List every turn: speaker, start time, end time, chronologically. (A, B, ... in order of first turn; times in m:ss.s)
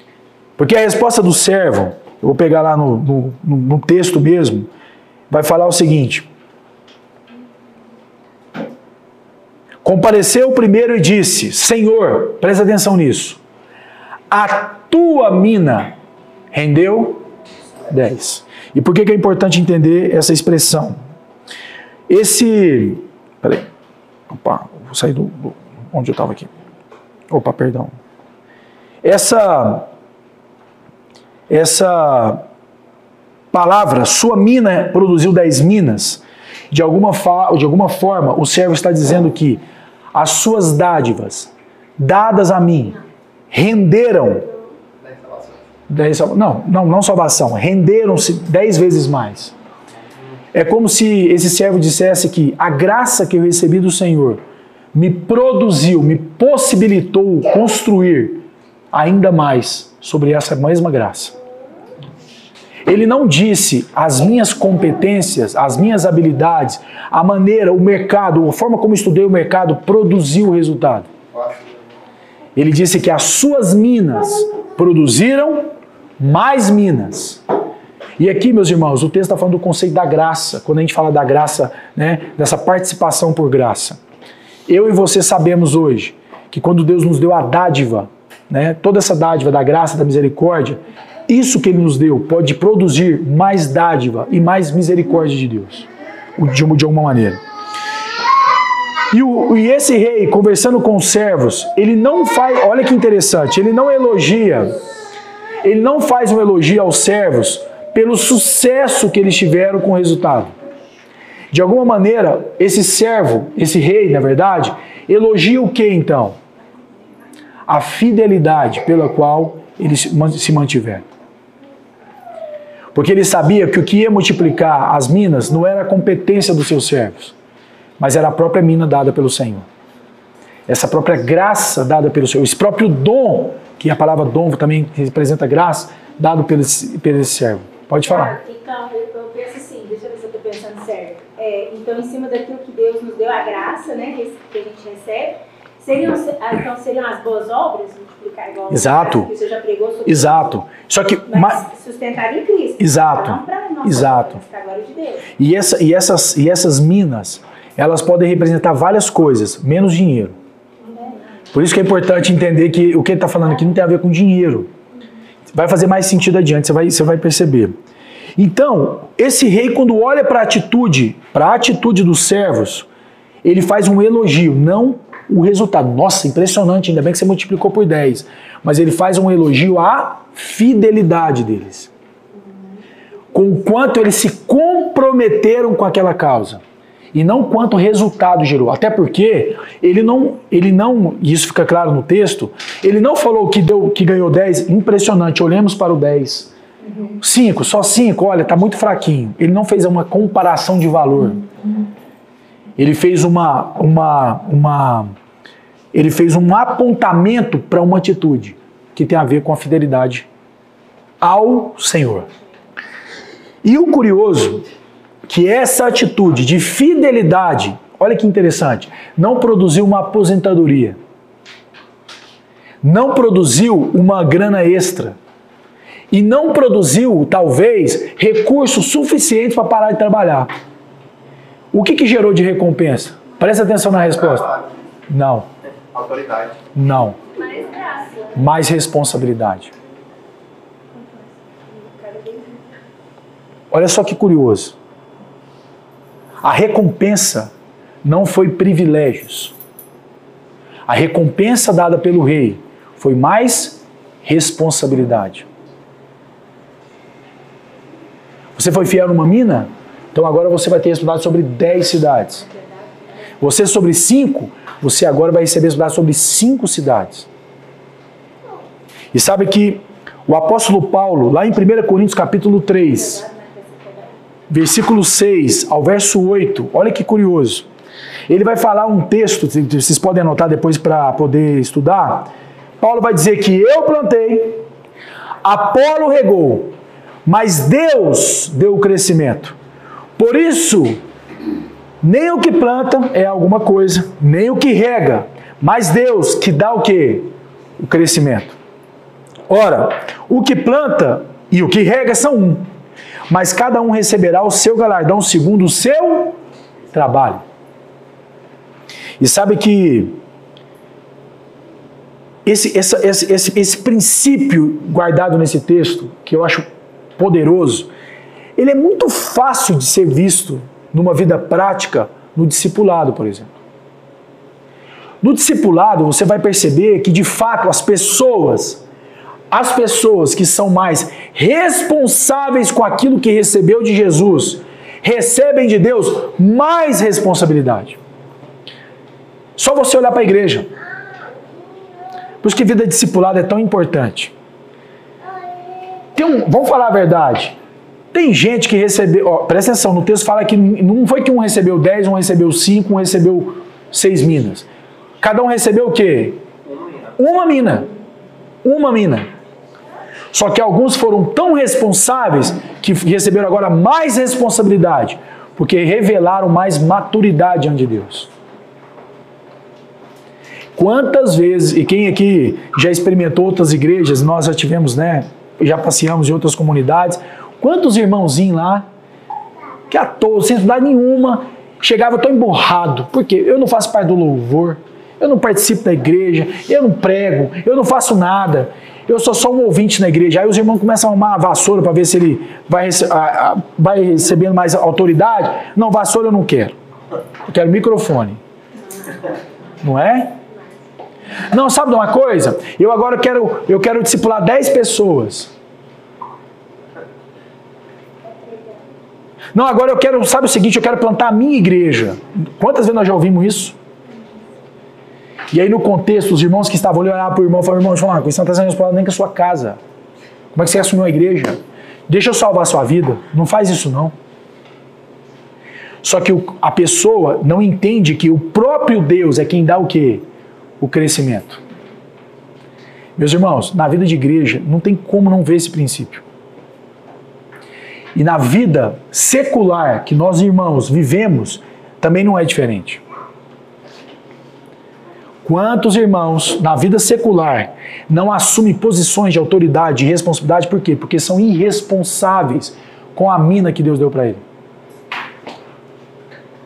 0:00.6-0:04.7 A
0:05.3-0:06.3 A
0:09.8-0:13.4 A
0:14.3-0:15.9 A
0:16.5-0:17.2 A
0:17.9-0:21.0 A
0:22.1-0:23.7 A
0:24.3-0:26.5 A
0:27.3-0:28.0 A
0:29.0-0:29.9 A
0:31.5-0:32.4 A
0:33.5-0:39.6 A
0:40.1-0:43.0 A
0:43.5-0:44.5 A
0:45.0-0:45.6 B
0:45.9-0:49.5 A
0:50.5-0:54.4 A
0:54.9-1:01.3 A
1:02.8-1:11.1 A
1:11.3-1:11.8 B
1:12.6-1:17.4 A
1:18.2-1:24.0 A
1:24.7-1:37.4 A
1:39.1-1:44.8 A
1:45.6-1:50.5 A
1:51.5-1:56.4 A
1:57.7-2:01.0 A
2:02.9-2:07.3 A
2:08.0-2:09.6 A
2:10.7-2:18.4 A
2:18.0-2:30.5 C
2:28.7-2:29.3 A
2:30.0-2:31.6 A
2:31.3-2:35.2 C
2:32.8-2:34.4 A
2:35.4-2:40.4 A
2:40.9-2:41.2 C
2:41.5-2:44.7 A
2:45.5-2:47.7 A
2:48.4-2:52.9 A
2:53.4-3:01.9 A
3:03.3-3:06.6 A
3:07.1-3:16.5 A
3:17.2-3:21.4 A
3:22.8-3:25.1 A
3:25.9-3:30.2 A
3:31.2-3:32.3 A
3:33.6-3:34.6 A
3:35.3-3:41.0 A
3:42.8-3:45.2 A
3:46.1-3:50.5 A
3:51.7-3:54.5 A
3:54.1-3:54.7 B
3:55.1-3:55.5 A
3:55.9-3:56.6 B
3:56.7-3:57.2 A
3:57.4-3:58.2 C
3:58.3-3:59.7 A
4:01.8-4:02.4 C
4:03.7-4:04.8 A
4:06.4-4:07.5 A
4:08.0-4:09.5 A
4:10.9-4:15.4 A
4:18.6-4:22.4 A
4:23.4-4:27.3 A
4:29.1-4:33.2 A
4:33.2-4:34.0 C
4:34.5-4:37.7 A
4:38.3-4:42.3 A
4:42.8-4:44.6 A
4:45.4-4:46.7 A
4:47.2-4:49.6 A
4:50.2-4:51.0 A
4:52.0-4:58.6 A
4:59.5-5:02.7 A
5:03.3-5:06.4 A
5:06.9-5:07.4 A
5:09.2-5:10.2 A
5:12.4-5:16.6 A
5:17.2-5:17.9 A
5:18.6-5:23.5 A
5:25.2-5:28.8 A
5:29.5-5:38.0 A
5:39.6-5:40.7 A
5:42.4-5:44.3 A
5:46.1-5:47.6 A
5:48.1-5:54.7 A
5:55.2-5:56.4 A
5:56.6-5:57.0 B
5:57.2-5:57.9 A
5:58.6-5:59.3 A
6:00.3-6:08.3 A
6:10.8-6:18.8 A
6:19.9-6:36.8 A
6:37.4-6:38.4 A
6:39.8-6:40.4 A
6:41.5-6:45.5 A
6:49.5-6:53.8 A
6:55.5-6:59.8 A
7:00.5-7:04.1 A
7:06.0-7:10.2 A
7:10.8-7:11.6 A
7:13.2-7:16.2 A
7:18.1-7:23.0 A
7:25.4-7:34.4 A